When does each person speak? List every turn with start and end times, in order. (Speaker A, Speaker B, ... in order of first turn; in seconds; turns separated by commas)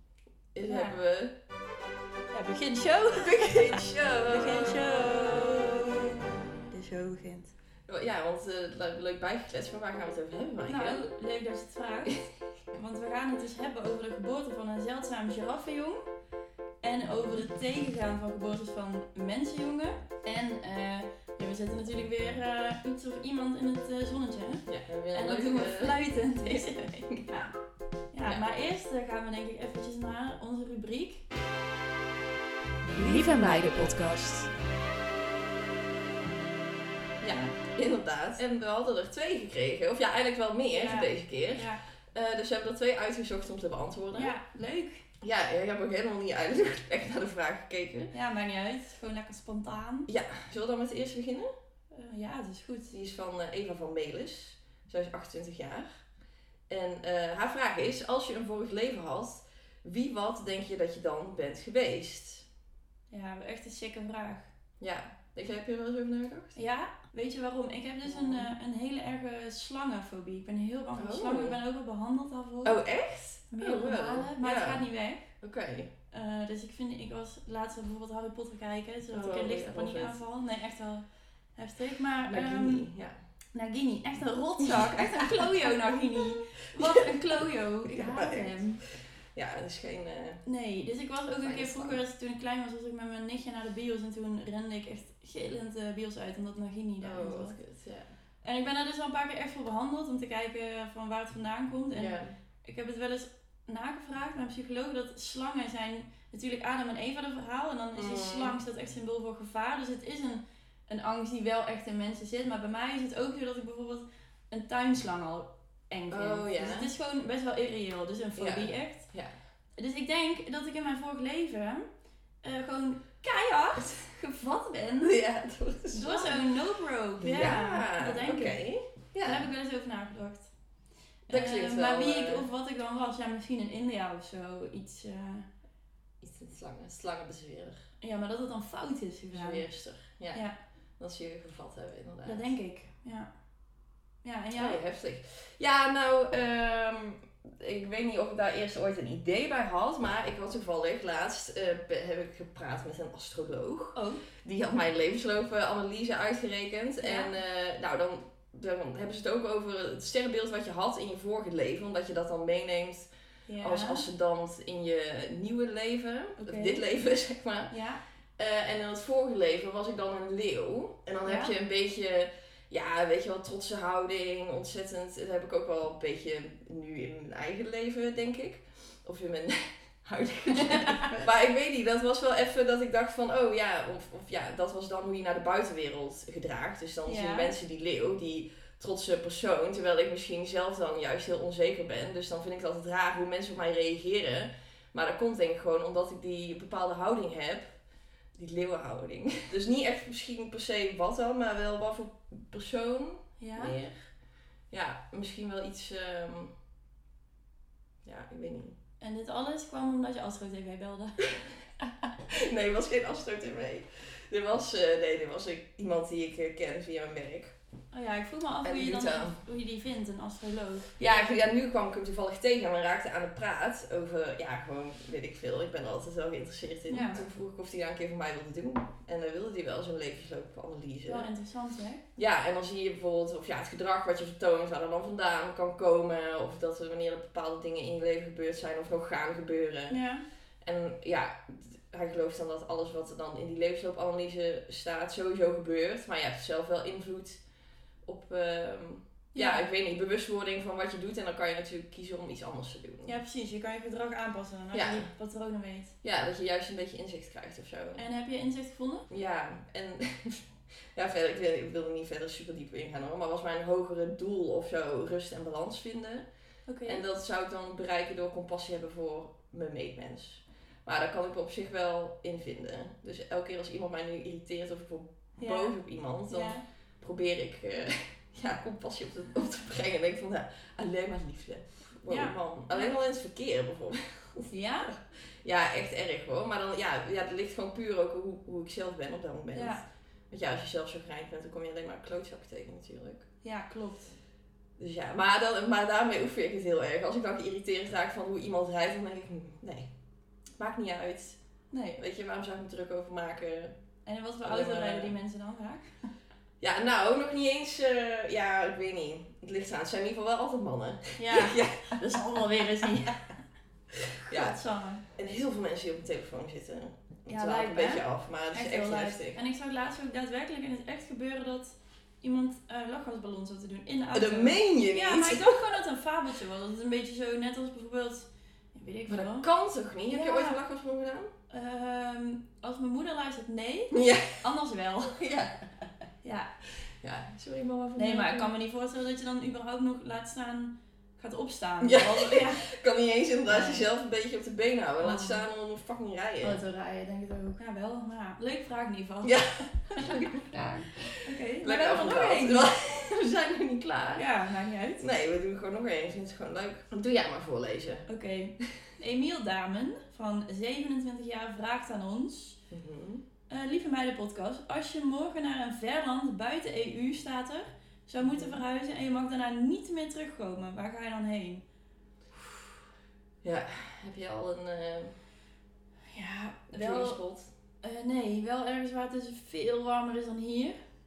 Speaker A: 0.5-1.3, Speaker B: 0.6-1.0, Speaker B: 2.3-6.2, Speaker A: 3.1-5.8, Speaker B: 6.7-7.5, Speaker A: 7.9-11.1, Speaker B: 10.7-12.2, Speaker B: 12.7-16.0, Speaker B: 16.8-27.5, Speaker A: 24.7-27.2, Speaker B: 28.1-31.3, Speaker A: 33.0-34.5, Speaker B: 33.0-33.6, Speaker A: 37.2-44.3, Speaker B: 37.3-37.5, Speaker B: 40.7-41.8, Speaker B: 44.1-45.0, Speaker A: 45.2-48.1, Speaker B: 48.1-50.1, Speaker A: 50.1-51.5, Speaker B: 51.9-52.9, Speaker A: 52.9-56.0, Speaker A: 56.7-62.5, Speaker B: 63.1-64.5, Speaker A: 64.8-66.6, Speaker B: 66.5-72.8, Speaker A: 68.0-68.5, Speaker A: 71.0-71.6, Speaker A: 72.6-75.9, Speaker B: 73.5-75.3, Speaker B: 76.1-82.9, Speaker A: 79.1-80.2, Speaker A: 82.3-83.1, Speaker B: 83.5-88.8, Speaker A: 84.6-85.7, Speaker A: 86.8-87.2, Speaker A: 87.8-90.4, Speaker B: 90.5-97.6, Speaker A: 91.4-92.0, Speaker A: 97.0-98.1, Speaker B: 98.4-119.1, Speaker A: 101.9-102.3, Speaker A: 107.9-108.6, Speaker A: 116.1-116.9, Speaker A: 118.3-119.3, Speaker B: 119.8-121.8, Speaker B: 122.4-125.2, Speaker A: 125.0-126.5, Speaker B: 125.9-128.6, Speaker A: 127.2-129.5, Speaker B: 129.2-130.5, Speaker B: 131.3-135.4, Speaker A: 131.3-132.5, Speaker A: 136.2-137.8, Speaker B: 138.0-139.7, Speaker A: 139.3-140.4, Speaker A: 141.0-142.5, Speaker B: 142.2-143.3, Speaker B: 144.2-144.8, Speaker A: 144.6-163.1, Speaker B: 153.9-154.2, Speaker B: 157.0-157.3, Speaker B: 163.5-164.0, Speaker A: 163.6-167.7, Speaker B: 166.4-166.8, Speaker B: 167.7-168.0, Speaker A: 168.4-197.8, Speaker B: 171.2-171.5, Speaker B: 180.5-181.2, Speaker B: 187.1-187.5, Speaker A: 198.3-204.1, Speaker B: 203.4-203.7, Speaker A: 204.7-206.5, Speaker A: 208.0-208.8, Speaker B: 209.0-211.2, Speaker A: 212.3-217.5, Speaker B: 217.9-221.0, Speaker A: 218.6-219.4, Speaker A: 221.0-231.3, Speaker B: 226.9-227.2, Speaker B: 231.1-232.0, Speaker A: 232.2-240.0, Speaker B: 239.9-240.2, Speaker A: 240.6-247.4, Speaker A: 248.0-253.1, Speaker B: 249.3-249.7, Speaker B: 253.1-255.9, Speaker A: 254.7-255.1, Speaker A: 256.0-258.0, Speaker B: 258.0-259.1, Speaker A: 259.1-266.3, Speaker B: 266.7-267.0, Speaker A: 266.9-293.3, Speaker B: 275.4-275.7, Speaker B: 276.3-276.6, Speaker B: 282.1-282.9, Speaker B: 284.5-284.9, Speaker B: 289.5-289.8, Speaker B: 293.4-294.1, Speaker A: 294.8-299.9, Speaker A: 300.5-301.4, Speaker B: 301.7-302.0, Speaker A: 302.0-303.7, Speaker B: 304.1-305.9, Speaker A: 304.4-305.1, Speaker A: 306.6-313.1, Speaker B: 311.2-313.3, Speaker A: 313.9-314.6, Speaker B: 314.3-315.0, Speaker A: 315.1-319.4, Speaker B: 317.3-329.5, Speaker A: 324.1-325.7, Speaker A: 329.1-331.3, Speaker B: 330.1-330.6, Speaker B: 331.5-335.2, Speaker A: 333.9-334.4, Speaker A: 335.1-335.6, Speaker B: 336.2-336.5, Speaker A: 337.0-338.5, Speaker B: 337.9-342.6, Speaker A: 341.8-346.6, Speaker B: 343.4-343.9, Speaker B: 345.0-345.4, Speaker B: 346.4-350.3, Speaker A: 349.2-354.3, Speaker B: 351.2-352.7, Speaker B: 354.1-355.0, Speaker A: 355.0-358.1, Speaker B: 358.1-362.6, Speaker A: 362.7-363.2, Speaker B: 363.5-371.6, Speaker A: 368.2-368.6, Speaker A: 372.3-372.7, Speaker A: 373.4-375.2, Speaker B: 376.1-377.2, Speaker A: 376.7-377.5, Speaker B: 377.8-380.8